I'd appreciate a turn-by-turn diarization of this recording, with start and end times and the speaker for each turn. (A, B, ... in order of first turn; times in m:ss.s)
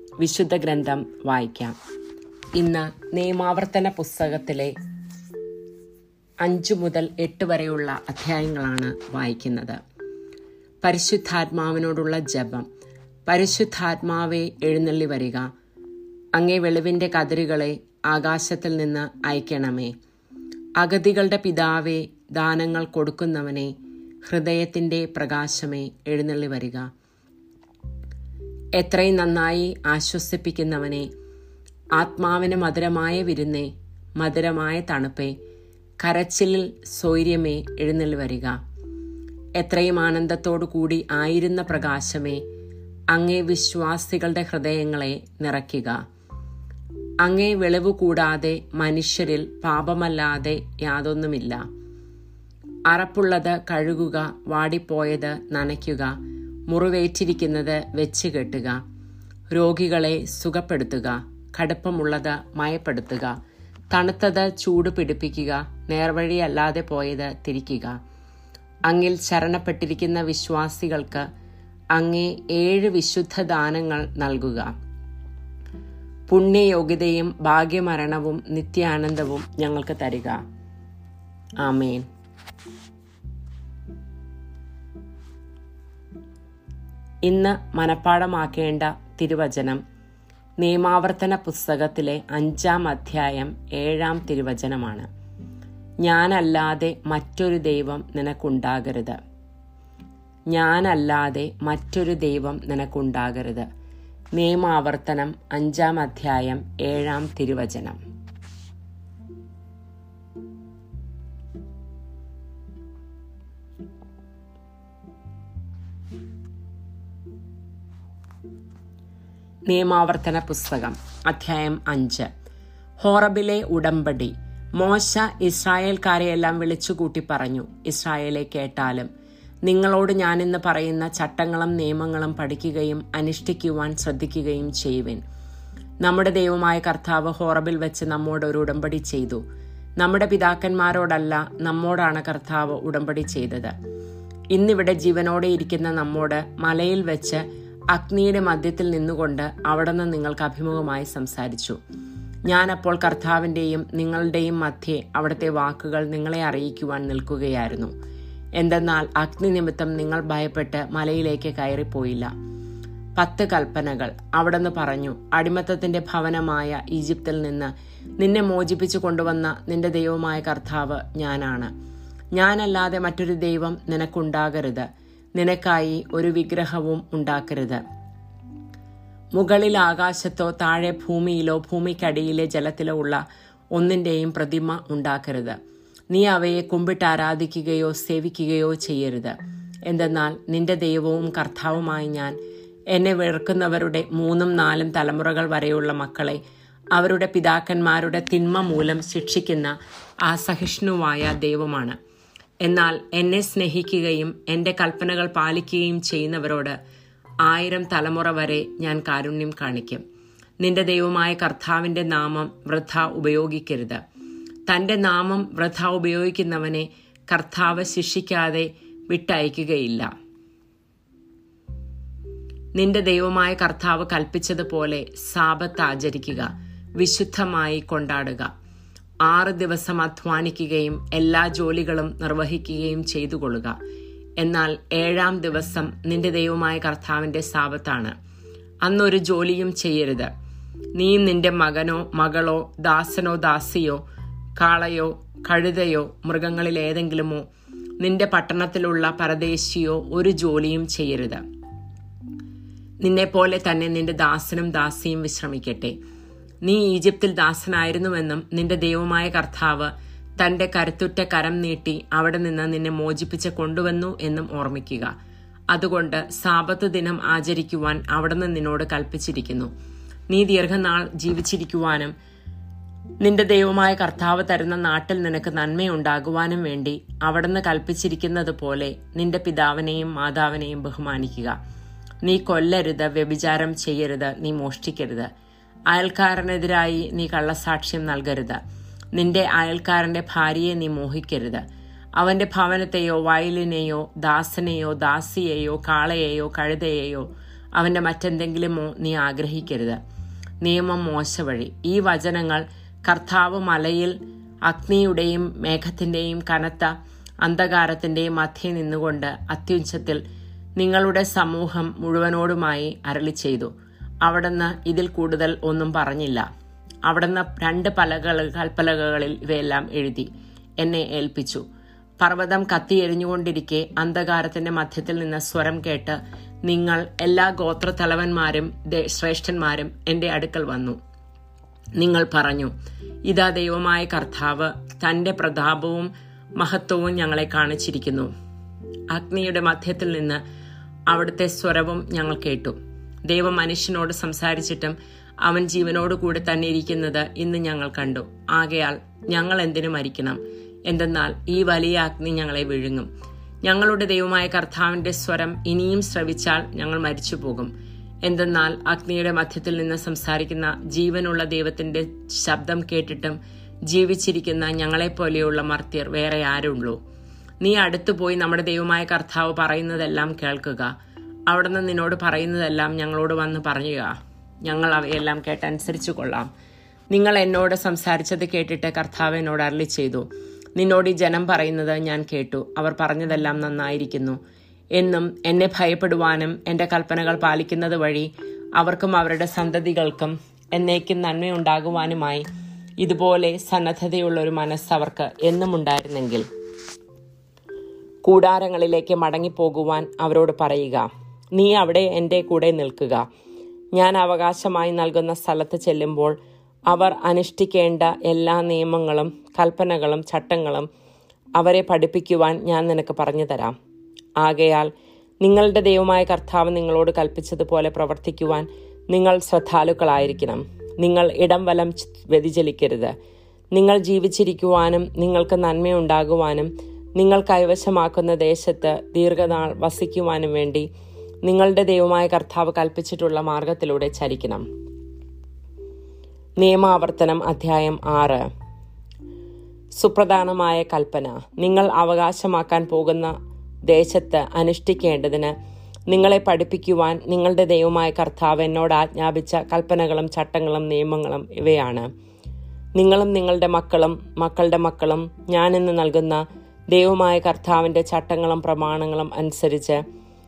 0:00.2-0:01.7 A
0:02.5-0:04.7 A
0:06.4-0:09.8 A
0:10.8-0:12.7 A
0:13.3-0:15.5 A
0:16.4-0:19.9 A
0:20.8-0:23.7 A
0:24.2-0:26.9 A
0:28.8-0:31.1 A
0:32.0-0:35.3 A
0:36.0-0:38.6 A
0:39.6-0:42.4 A
0:43.1-0:46.0 A
0:47.2-0:51.6 A
0:52.9-0:56.1 A
0:56.7-0:58.8 A
0:59.5-1:03.3 A
1:03.9-1:08.0 A
1:08.9-1:11.3 A
1:11.9-1:14.7 A
1:16.3-1:20.4 A
1:21.6-1:22.0 A
1:27.2-1:29.8 A
1:30.6-1:35.1 A
1:36.0-1:39.2 A
1:40.5-1:43.7 A
1:44.4-1:48.0 A
1:59.7-2:02.3 A
2:03.0-2:09.1 A
2:09.7-2:15.2 A
2:16.0-2:19.4 A
2:20.0-2:23.7 A
2:24.5-2:31.8 A
2:32.5-2:37.9 A
2:38.6-2:42.3 A
2:43.2-2:51.7 A
2:52.3-2:57.8 A
2:59.4-3:03.2 A
3:03.8-3:05.6 A
3:06.1-3:09.3 A
3:09.9-3:12.4 A
3:12.9-3:16.4 A
3:17.0-3:19.7 A
3:20.2-3:22.0 A
3:22.6-3:26.8 A
3:27.4-3:30.0 A
3:30.6-3:34.0 A
3:34.7-3:40.1 A
3:42.8-3:48.5 A
3:49.3-3:53.8 A
3:54.4-3:58.2 A
3:58.8-4:00.3 A
4:01.0-4:04.0 A
4:04.6-4:07.4 A
4:08.0-4:11.4 A
4:13.0-4:16.0 A
4:16.6-4:25.1 A
4:25.7-4:29.7 A
4:30.3-4:32.1 A
4:33.2-4:41.6 A
4:42.2-4:45.3 A
4:45.9-4:48.6 A
4:49.1-4:51.6 A
4:52.2-5:00.0 A
5:00.6-5:06.9 A
5:07.4-5:10.2 A
5:10.8-5:13.7 A
5:14.2-5:16.4 A
5:17.0-5:20.3 A
5:20.8-5:21.6 A
5:22.2-5:31.0 A
5:32.0-5:32.7 A
5:33.2-5:38.3 A
5:39.1-5:40.4 A
5:41.1-5:42.8 A
5:43.3-5:53.1 A
5:53.6-5:57.7 A
5:58.2-6:07.0 A
6:07.6-6:10.9 A
6:11.5-6:16.5 A
6:17.1-6:24.4 A
6:25.0-6:32.4 A
6:33.0-6:36.4 A
6:38.2-6:43.2 A
6:43.9-6:46.4 A
6:46.9-6:50.9 A
6:51.6-6:53.8 A
6:54.4-6:54.9 A
6:55.4-7:03.1 A
7:03.7-7:10.9 A
7:11.4-7:14.6 A
7:16.6-7:18.5 A
7:20.0-7:23.3 A
7:23.9-7:25.5 A
7:26.1-7:32.1 A
7:33.0-7:40.0 A